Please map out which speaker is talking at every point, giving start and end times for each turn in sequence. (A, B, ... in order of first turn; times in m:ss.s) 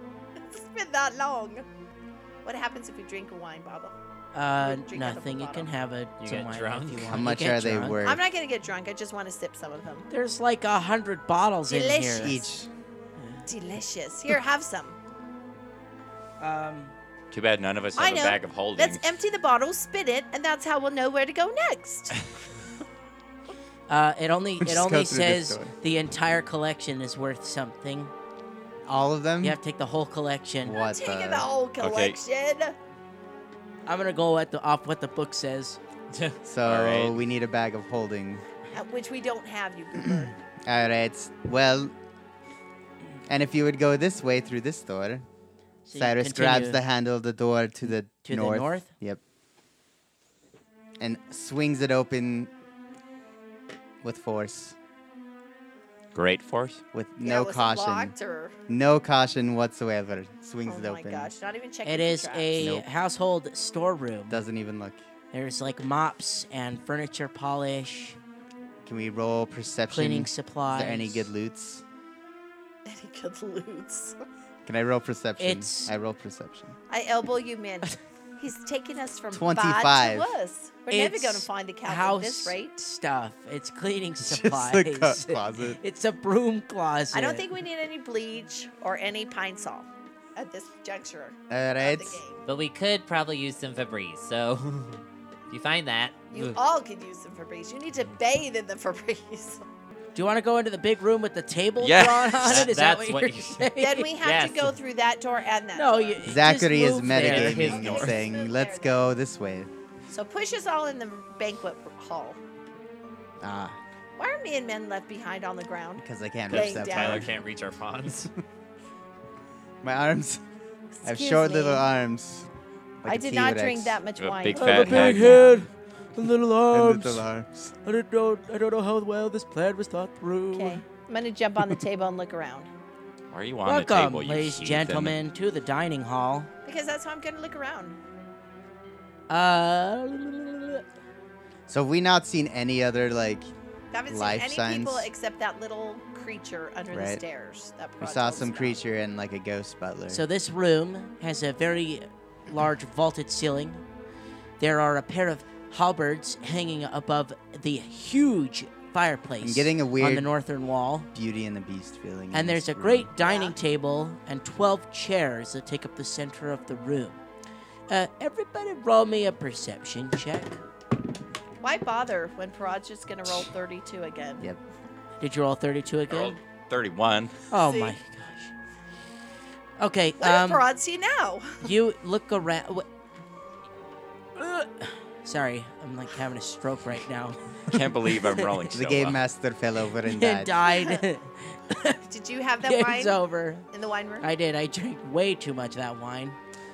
0:00.4-0:01.7 A
0:02.4-0:03.9 A
0:04.3-0:08.0 B
0:04.6-0:05.7 A
0:06.2-0:07.2 C
0:07.1-0:08.2 D
0:08.0-0:10.1 A
0:10.1-0:12.4 B
0:11.7-0:12.4 A
0:12.2-0:12.7 D
0:13.2-0:13.4 B
0:13.5-0:15.0 A
0:16.4-0:16.9 B
0:17.3-0:19.1 E
0:18.0-0:22.2 A
0:23.9-0:28.1 B
0:24.6-0:25.7 D
0:28.8-0:29.6 D
0:29.4-0:30.8 B
0:30.6-0:31.5 D
0:30.7-0:32.8 A
0:31.8-0:32.2 E
0:33.8-0:35.8 B
0:36.1-0:36.4 C
0:36.4-0:38.4 D
0:36.6-0:37.1 E
0:38.7-0:40.4 A
0:40.2-0:41.9 D
0:43.3-0:45.2 D
0:45.8-0:46.8 B
0:45.9-0:49.2 D
0:48.2-0:48.9 B
0:51.0-0:52.5 D
0:54.0-0:54.8 D
0:56.1-0:56.8 E
0:56.9-0:58.1 D
0:57.2-0:58.6 A
0:58.7-1:01.3 D
1:00.6-1:02.6 A
1:01.8-1:04.4 B
1:02.6-1:02.8 D
1:04.3-1:05.0 D
1:05.3-1:08.2 B
1:08.8-1:11.8 D
1:09.9-1:11.3 B
1:12.8-1:14.2 A
1:14.6-1:16.7 D
1:15.4-1:15.9 B
1:16.9-1:22.8 A
1:19.3-1:20.3 D
1:20.9-1:27.4 B
1:24.2-1:25.8 D
1:27.1-1:32.4 A
1:31.5-1:32.2 D
1:32.4-1:36.6 C
1:36.3-1:39.6 A
1:40.1-1:44.1 B
1:41.8-1:42.7 E
1:42.4-1:43.7 C
1:43.8-1:46.2 A
1:44.2-1:44.7 C
1:45.8-1:47.7 B
1:46.2-1:49.7 D
1:47.1-1:48.2 C
1:47.6-1:49.0 A
1:50.1-1:52.4 A
1:53.4-1:53.8 D
1:54.2-1:57.3 A
1:56.0-1:57.3 D
1:56.5-1:58.3 C
1:59.8-2:00.4 D
2:01.0-2:01.8 A
2:01.0-2:02.5 D
2:03.0-2:04.0 D
2:03.0-2:05.5 A
2:04.2-2:05.6 E
2:04.5-2:07.2 B
2:06.7-2:07.7 D
2:07.8-2:10.8 B
2:10.5-2:12.7 A
2:13.3-2:15.2 E
2:13.6-2:16.5 B
2:16.6-2:18.0 A
2:19.3-2:20.8 B
2:21.7-2:23.5 D
2:23.9-2:28.8 A
2:24.1-2:25.1 D
2:26.9-2:27.2 D
2:28.0-2:30.2 D
2:30.1-2:33.8 B
2:34.6-2:41.1 B
2:39.4-2:40.3 D
2:41.1-2:43.1 D
2:42.3-2:47.2 B
2:43.2-2:43.6 A
2:47.9-2:50.6 B
2:51.6-2:54.5 A
2:55.2-2:56.4 B
2:56.1-2:57.4 E
2:57.5-2:58.5 B
2:57.6-2:58.0 A
2:59.8-3:00.7 B
3:00.2-3:01.7 A
3:01.6-3:02.8 B
3:04.4-3:08.6 B
3:07.7-3:09.2 E
3:08.7-3:10.6 D
3:10.0-3:12.0 B
3:10.7-3:11.0 A
3:12.0-3:14.3 A
3:12.6-3:13.7 B
3:14.2-3:16.4 B